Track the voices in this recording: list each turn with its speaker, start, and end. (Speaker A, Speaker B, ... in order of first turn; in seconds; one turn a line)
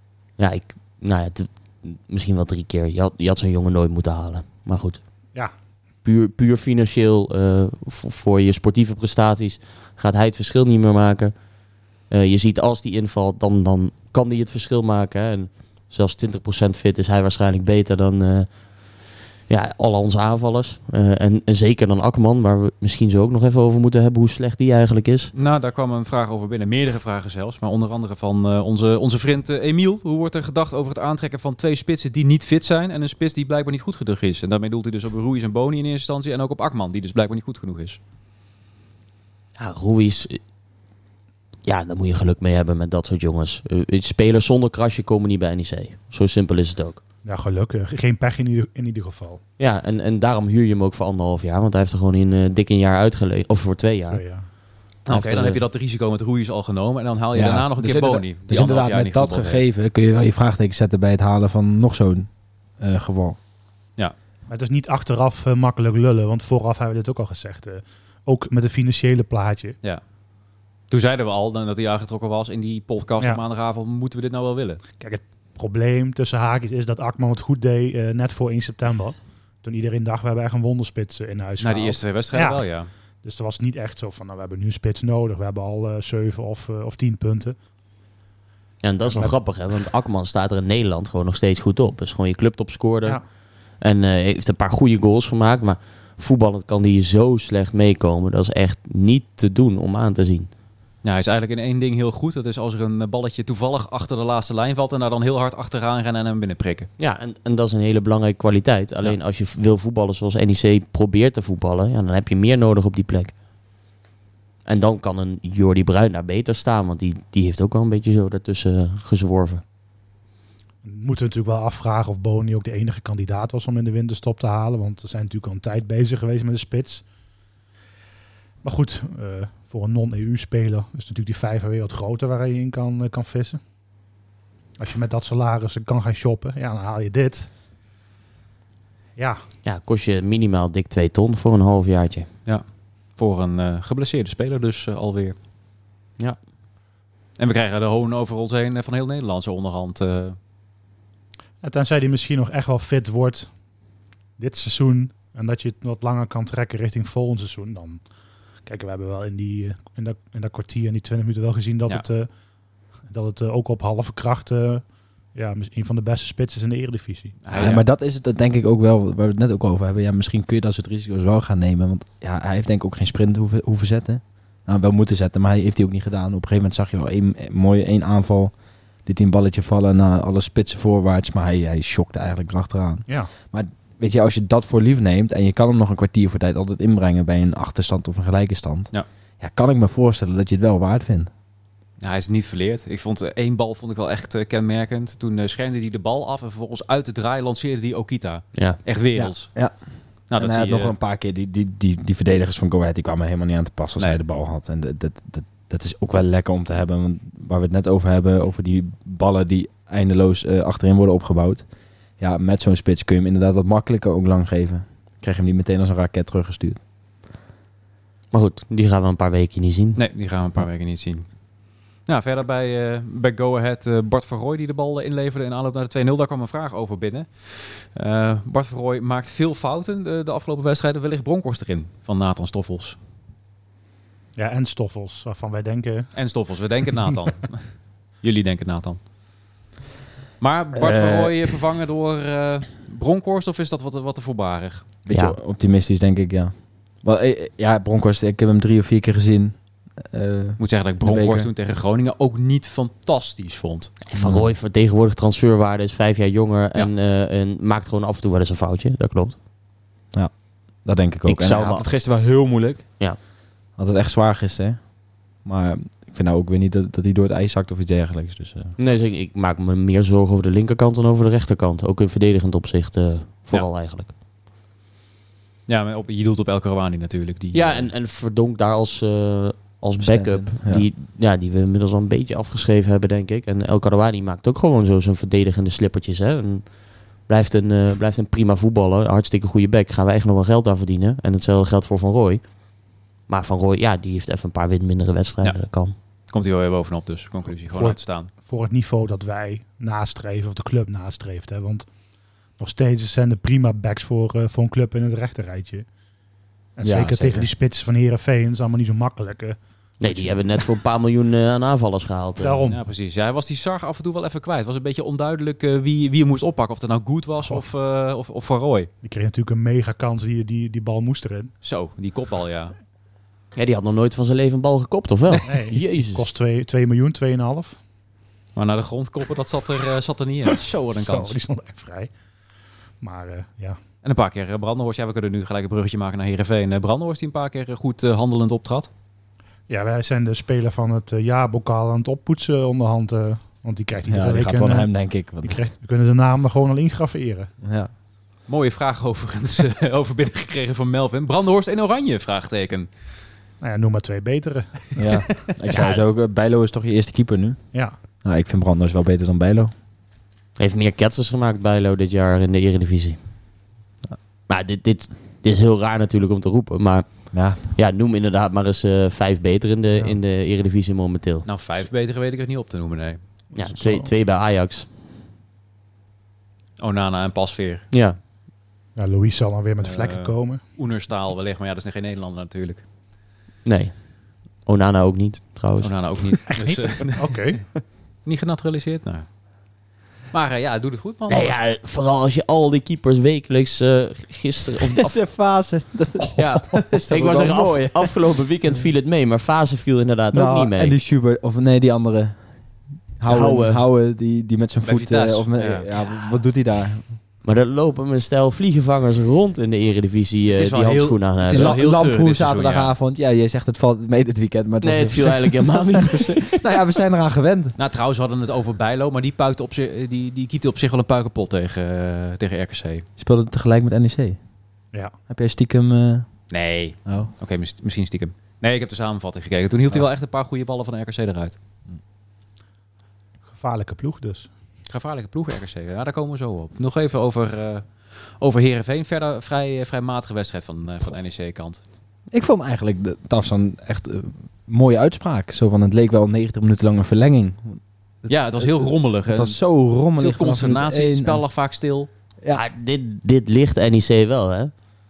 Speaker A: 0.4-5.0
Speaker A: 6.0-11.3
Speaker A: 12.1-18.5
Speaker A: 19.5-25.3
Speaker B: 25.3-38.0
Speaker A: 39.6-40.4
Speaker A: 41.6-47.0
Speaker C: 47.2-49.4
Speaker A: 49.6-54.2
Speaker C: 54.1-54.4
Speaker B: 55.0-59.7
Speaker A: 55.1-55.6
Speaker D: 57.3-63.4
Speaker C: 64.5-69.8
Speaker B: 70.9-74.8
Speaker C: 75.0-82.6
Speaker B: 81.6-82.9
Speaker C: 83.2-87.5
Speaker A: 88.8-93.2
Speaker C: 89.1-89.4
Speaker A: 93.8-100.5
Speaker B: 101.0-106.9
Speaker A: 107.0-113.3
Speaker A: 114.7-119.6
Speaker C: 120.8-127.0
Speaker C: 128.6-133.6
Speaker C: 134.8-137.5
Speaker A: 139.6-142.3
Speaker B: 143.2-145.4
Speaker B: 147.4-150.4
Speaker C: 151.6-153.5
Speaker C: 154.4-158.0
Speaker C: 158.6-162.3
Speaker C: 163.1-167.4
Speaker B: 167.5-167.8
Speaker D: 167.5-178.5
Speaker D: 179.1-191.3
Speaker B: 192.0-199.5
Speaker A: 198.5-198.8
Speaker D: 199.1-211.6
Speaker B: 200.3-200.9
Speaker D: 212.2-216.8
Speaker A: 218.3-220.0
Speaker B: 220.0-221.2
Speaker B: 222.1-233.0
Speaker C: 234.4-236.1
Speaker B: 236.1-237.7
Speaker B: 238.2-239.0
Speaker B: 240.4-244.8
Speaker A: 240.8-241.3
Speaker D: 245.1-251.5
Speaker A: 245.1-245.4
Speaker B: 250.6-253.9
Speaker A: 254.0-259.4
Speaker D: 254.2-254.5
Speaker D: 260.1-262.9
Speaker A: 261.2-261.9
Speaker D: 263.8-264.8
Speaker D: 265.4-268.8
Speaker A: 268.8-274.1
Speaker B: 275.7-277.9
Speaker A: 277.5-286.7
Speaker D: 280.0-280.9
Speaker A: 287.2-292.4
Speaker A: 293.3-295.9
Speaker B: 296.3-298.3
Speaker C: 297.7-301.9
Speaker C: 302.6-305.9
Speaker C: 306.8-310.4
Speaker D: 306.8-307.5
Speaker A: 310.0-312.6
Speaker C: 312.4-312.8
Speaker B: 312.7-318.9
Speaker C: 319.0-321.5
Speaker B: 321.6-322.8
Speaker A: 323.5-326.3
Speaker C: 325.5-327.8
Speaker B: 328.5-331.4
Speaker C: 330.9-332.1
Speaker C: 333.0-333.8
Speaker B: 334.0-338.9
Speaker C: 339.7-347.5
Speaker D: 344.1-345.6
Speaker D: 347.6-347.9
Speaker B: 348.5-352.9
Speaker C: 353.6-354.8
Speaker D: 355.0-359.7
Speaker A: 360.6-363.2
Speaker A: 364.5-371.5
Speaker D: 367.3-367.6
Speaker B: 371.4-373.2
Speaker C: 373.5-374.1
Speaker A: 373.6-374.9
Speaker B: 376.8-377.9
Speaker A: 377.9-378.2
Speaker C: 379.0-380.6
Speaker B: 379.8-382.8
Speaker A: 383.6-384.1
Speaker A: 384.6-386.2
Speaker B: 385.8-387.5
Speaker C: 386.5-387.6
Speaker B: 388.2-389.3
Speaker B: 390.3-391.6
Speaker A: 391.3-395.2
Speaker D: 394.8-398.1
Speaker A: 396.4-401.0
Speaker D: 400.3-402.5
Speaker D: 403.2-407.1
Speaker A: 403.3-403.8
Speaker B: 404.8-405.9
Speaker A: 407.4-411.8
Speaker B: 410.5-412.9
Speaker D: 411.5-417.8
Speaker A: 414.8-416.6
Speaker B: 417.8-423.1
Speaker D: 423.2-424.4
Speaker D: 425.3-426.4
Speaker B: 426.5-431.6
Speaker D: 427.1-427.3
Speaker C: 433.5-434.5
Speaker B: 434.9-441.8
Speaker D: 442.3-451.4
Speaker B: 448.3-449.6
Speaker B: 450.1-452.1
Speaker A: 452.5-454.7